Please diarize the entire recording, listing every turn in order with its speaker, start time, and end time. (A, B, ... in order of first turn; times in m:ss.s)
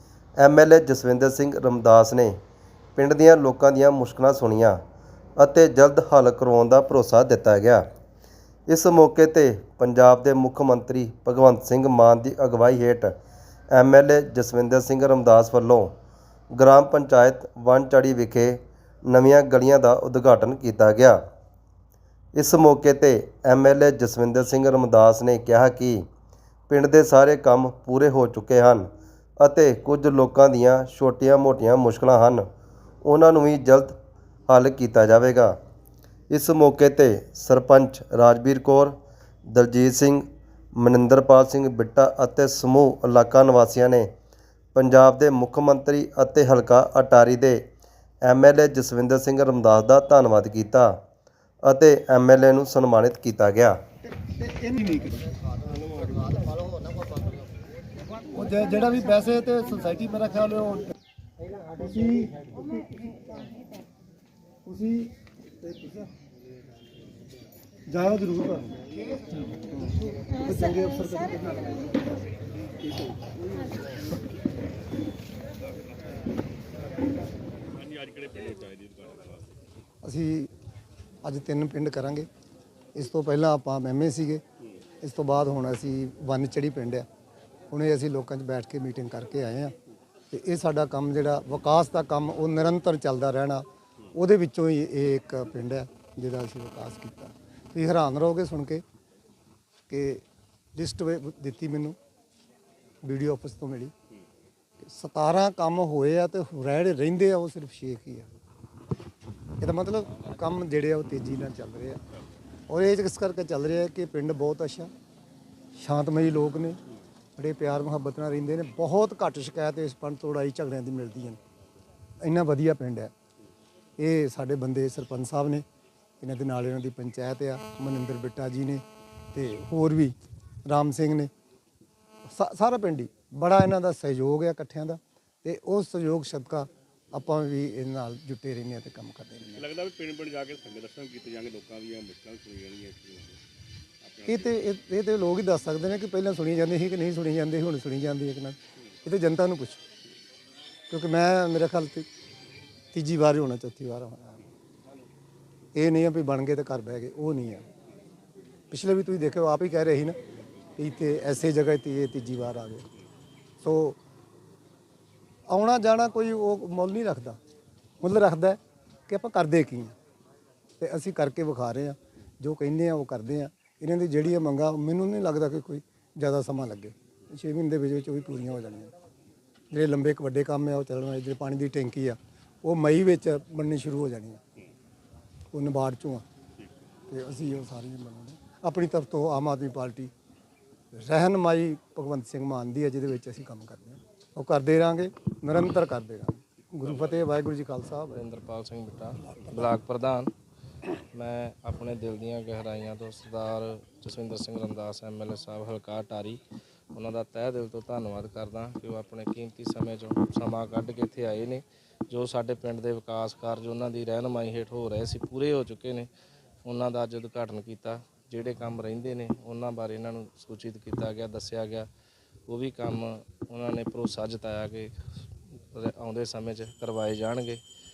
0:00.4-0:02.4 A
0:03.0-0:04.8 A
0:05.4-0:07.8 A
0:08.7-0:13.1 A
0:13.7-0:15.9 A
0:16.5-0:21.2 A
0:22.4-0:26.0 A
0:26.7-0:28.9 A
0:29.4-0:32.4 A
0:33.0-0:33.9 A
0:34.5-0:35.5 A
0:36.3-0:39.0 A
0:39.5-0:40.2 A
0:40.8-0:44.1 A
0:44.7-0:47.6 A
0:48.2-0:50.9 A
0:51.6-0:53.8 A
0:54.3-0:56.5 B
0:58.3-1:00.9 B
1:01.7-1:03.6 B
1:04.6-1:05.1 B
1:05.8-1:06.1 B
1:07.9-1:12.0 B
1:17.7-1:19.6 C
1:20.0-1:20.5 B
1:21.2-1:22.3 B
1:22.9-1:24.4 B
1:25.0-1:27.0 B
1:27.7-1:29.7 B
1:30.3-1:38.8 B
1:39.9-1:40.2 B
1:40.7-1:42.0 B
1:43.0-1:43.9 B
1:44.8-1:48.3 B
1:49.6-1:52.0 B
1:52.7-1:54.9 B
1:55.8-1:56.8 B
1:57.4-2:01.4 B
2:02.2-2:03.1 B
2:04.0-2:05.6 B
2:06.2-2:08.8 B
2:09.3-2:10.1 B
2:10.7-2:11.3 B
2:12.2-2:19.7 B
2:19.6-2:23.4 C
2:24.0-2:24.5 C
2:24.2-2:29.8 B
2:30.9-2:32.1 B
2:32.9-2:34.4 B
2:35.7-2:37.6 B
2:38.7-2:40.2 B
2:40.8-2:42.8 B
2:43.6-2:44.0 B
2:45.5-2:47.4 B
2:48.0-2:49.9 B
2:50.8-2:58.9 B
2:59.7-3:04.4 B
3:05.5-3:06.2 B
3:07.1-3:10.1 B
3:10.9-3:18.2 B
3:18.1-3:20.3 D
3:19.3-3:19.7 B
3:21.1-3:26.4 D
3:26.9-3:36.1 D
3:36.6-3:41.9 D
3:42.5-3:44.9 D
3:45.7-3:47.6 D